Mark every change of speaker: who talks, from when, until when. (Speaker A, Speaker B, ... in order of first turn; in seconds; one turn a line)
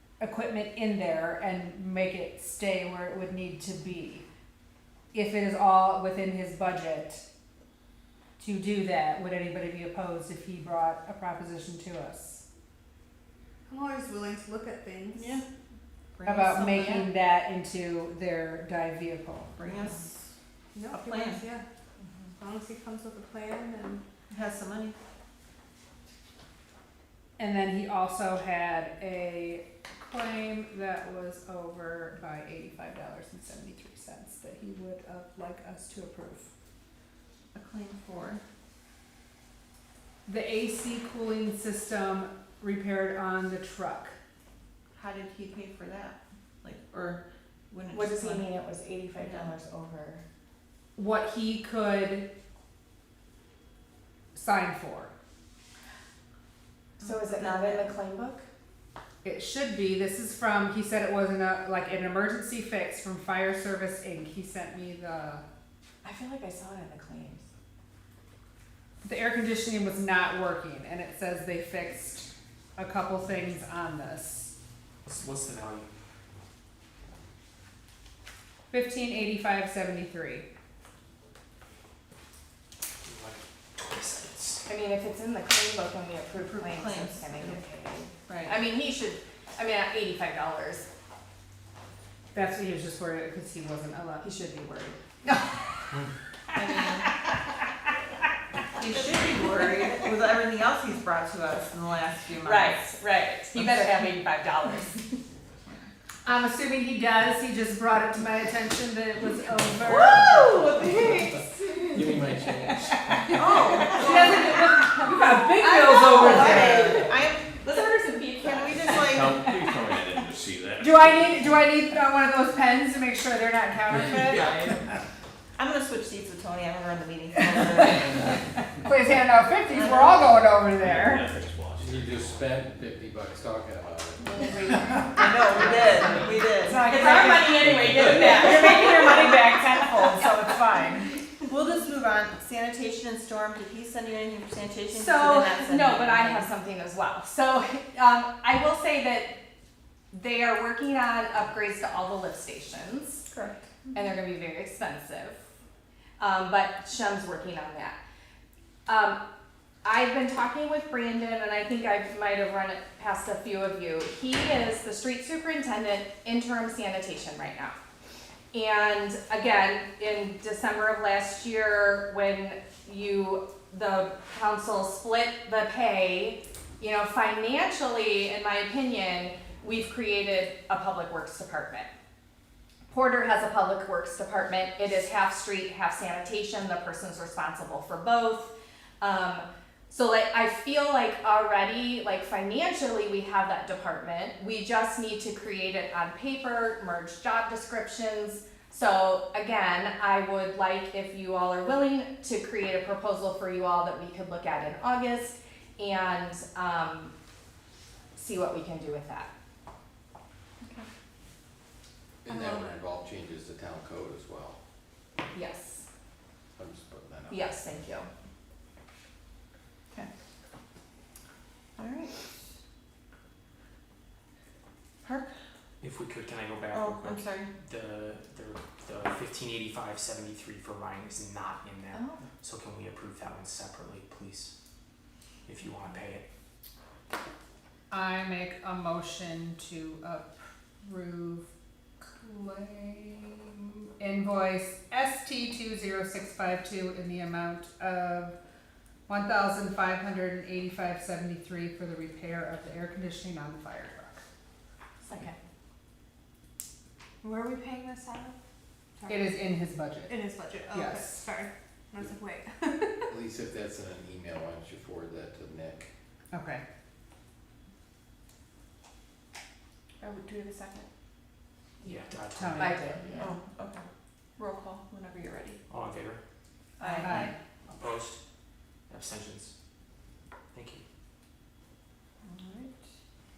Speaker A: 0.2-4.2
Speaker A: 5.1-7.2
Speaker A: 8.4-12.4
Speaker B: 13.7-15.4
Speaker C: 15.1-15.4
Speaker C: 16.2-17.1
Speaker A: 16.2-19.5
Speaker C: 19.5-20.3
Speaker B: 20.8-21.6
Speaker C: 20.9-21.4
Speaker B: 22.4-24.0
Speaker C: 24.3-25.0
Speaker A: 27.4-36.5
Speaker C: 37.5-38.4
Speaker A: 40.3-44.2
Speaker C: 45.0-48.5
Speaker D: 47.9-50.2
Speaker C: 49.2-49.5
Speaker A: 51.0-52.3
Speaker A: 54.4-55.1
Speaker D: 57.0-58.5
Speaker C: 57.0-58.0
Speaker A: 59.2-65.4
Speaker D: 66.0-67.5
Speaker A: 69.0-74.5
Speaker E: 75.1-75.9
Speaker A: 78.7-80.5
Speaker E: 83.0-84.7
Speaker D: 84.7-90.9
Speaker C: 86.4-87.6
Speaker C: 88.3-88.6
Speaker A: 92.3-94.3
Speaker D: 94.2-95.0
Speaker A: 95.2-95.9
Speaker C: 96.5-97.1
Speaker A: 97.0-97.5
Speaker C: 98.8-102.8
Speaker D: 102.4-105.2
Speaker A: 106.2-110.6
Speaker C: 109.8-112.2
Speaker F: 111.9-113.9
Speaker A: 112.8-117.1
Speaker C: 113.3-114.7
Speaker C: 115.6-119.5
Speaker D: 116.1-119.3
Speaker G: 119.1-121.3
Speaker F: 119.5-120.2
Speaker A: 120.8-124.8
Speaker C: 125.6-128.3
Speaker A: 128.8-131.4
Speaker C: 129.8-130.1
Speaker G: 130.8-132.4
Speaker F: 131.8-136.2
Speaker C: 135.1-136.9
Speaker A: 135.5-141.2
Speaker D: 136.7-140.2
Speaker C: 141.5-146.5
Speaker D: 144.9-149.4
Speaker D: 150.1-153.2
Speaker C: 153.3-154.0
Speaker D: 153.9-155.4
Speaker D: 156.2-158.0
Speaker D: 158.9-159.2
Speaker D: 159.8-167.8
Speaker D: 168.5-181.9
Speaker D: 182.9-207.1
Speaker D: 208.2-209.3
Speaker C: 210.6-210.9
Speaker F: 212.2-214.6
Speaker B: 212.3-212.6
Speaker D: 215.3-215.9
Speaker F: 216.6-217.4
Speaker D: 217.3-218.1
Speaker C: 221.8-222.3
Speaker C: 225.0-225.3
Speaker E: 225.8-234.5
Speaker C: 226.7-227.5
Speaker D: 231.9-232.2
Speaker E: 235.5-236.2
Speaker A: 237.9-241.5
Speaker A: 242.0-248.3
Speaker A: 249.1-254.2
Speaker B: 257.2-258.4
Speaker B: 259.0-259.4
Speaker A: 259.1-260.2
Speaker B: 260.1-263.0
Speaker A: 260.7-261.2
Speaker F: 263.1-265.9
Speaker A: 266.3-266.6
Speaker C: 270.0-270.9
Speaker E: 271.8-273.0
Speaker A: 272.3-272.8
Speaker D: 272.6-273.4
Speaker C: 273.2-273.9
Speaker C: 274.4-275.6
Speaker E: 275.7-276.2
Speaker C: 276.8-277.3
Speaker E: 277.0-278.2
Speaker A: 277.0-277.3
Speaker E: 278.9-279.5
Speaker E: 280.5-280.8
Speaker C: 282.2-282.8